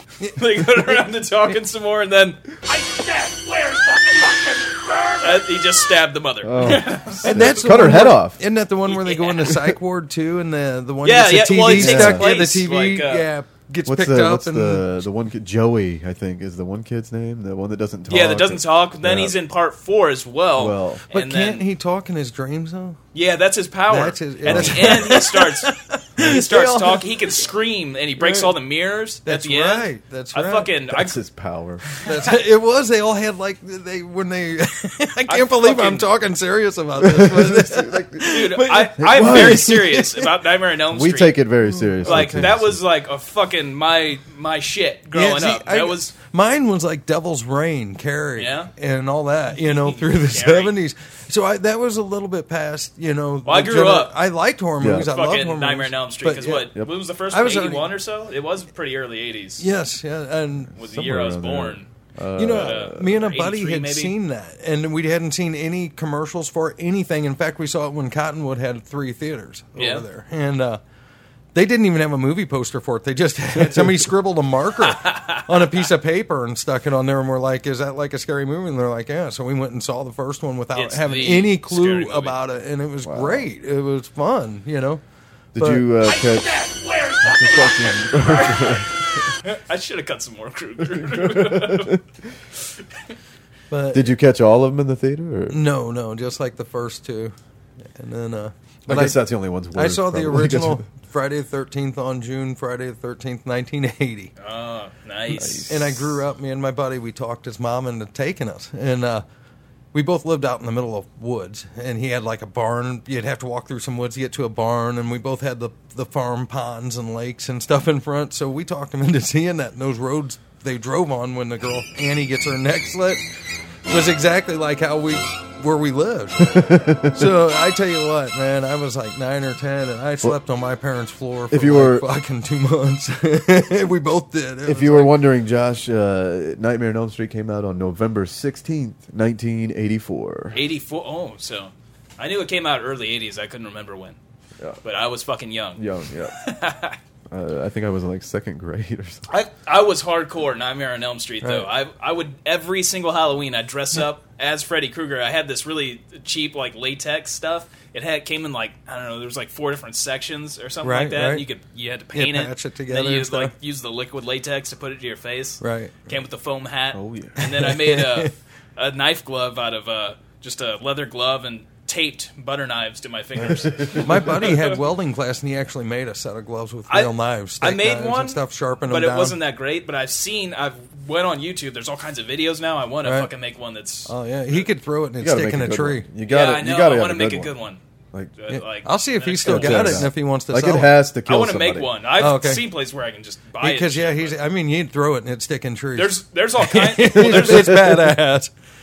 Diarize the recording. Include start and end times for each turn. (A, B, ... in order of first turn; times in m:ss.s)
0:00.2-0:01.1 A
0:00.4-0:02.4 B
0:05.2-0:08.0 B
0:06.4-0:08.4 C
0:06.6-0:14.9 A
0:08.9-0:09.5 B
0:11.0-0:13.3 B
0:11.6-0:12.3 C
0:13.9-0:19.4 C
0:18.1-0:21.7 B
0:20.6-0:21.0 C
0:21.1-0:23.0 A
0:23.1-0:31.2 B
0:23.9-0:27.1 A
0:24.4-0:25.3 C
0:28.2-0:28.6 A
0:29.2-0:30.7 A
0:30.9-0:31.9 C
0:32.0-0:40.3 A
0:35.3-0:36.1 B
0:37.0-0:38.4 C
0:38.2-0:41.4 B
0:39.0-0:39.8 C
0:40.9-0:42.8 C
0:41.7-0:42.5 A
0:42.0-0:46.1 B
0:45.1-0:56.7 A
0:48.4-0:48.7 B
0:49.9-0:50.7 B
0:53.5-0:54.2 B
0:54.8-0:55.1 C
0:55.0-0:59.7 B
0:57.3-0:57.9 A
0:59.6-1:00.7 A
1:00.7-1:03.2 C
1:00.8-1:01.9 B
1:02.4-1:10.8 A
1:02.5-1:04.1 B
1:09.8-1:10.0 B
1:11.5-1:25.0 A
1:13.5-1:14.1 C
1:14.9-1:15.5 B
1:20.8-1:22.4 B
1:23.0-1:23.5 C
1:25.6-1:25.9 A
1:25.6-1:26.6 C
1:27.2-1:28.9 C
1:28.2-1:28.8 B
1:29.4-1:32.0 B
1:30.8-1:32.0 C
1:33.7-1:34.1 A
1:33.9-1:35.6 C
1:35.5-1:37.4 A
1:37.9-1:39.2 A
1:38.9-1:40.8 C
1:39.7-1:44.3 A
1:44.4-1:45.7 B
1:45.3-1:46.1 C
1:45.7-1:49.2 A
1:49.9-2:03.2 A
2:03.9-2:15.2 A
2:06.4-2:07.4 C
2:11.5-2:12.0 C
2:14.6-2:20.6 C
2:20.5-2:24.2 B
2:24.8-2:27.0 B
2:25.8-2:26.4 C
2:27.3-2:29.2 C
2:29.3-2:54.7 B
2:31.4-2:31.7 A
2:40.8-2:41.5 A
2:42.1-2:43.5 A
2:45.6-2:46.1 A
2:46.9-2:47.5 C
2:47.4-2:48.3 A
2:54.0-2:59.4 A
2:56.9-3:04.7 B
3:03.0-3:03.3 A
3:04.1-3:06.1 A
3:05.2-3:07.5 C
3:06.3-3:07.8 B
3:08.4-3:10.1 B
3:08.5-3:11.0 A
3:09.4-3:11.9 C
3:11.3-3:14.4 B
3:12.2-3:12.7 A
3:13.6-3:18.5 A
3:16.0-3:17.8 B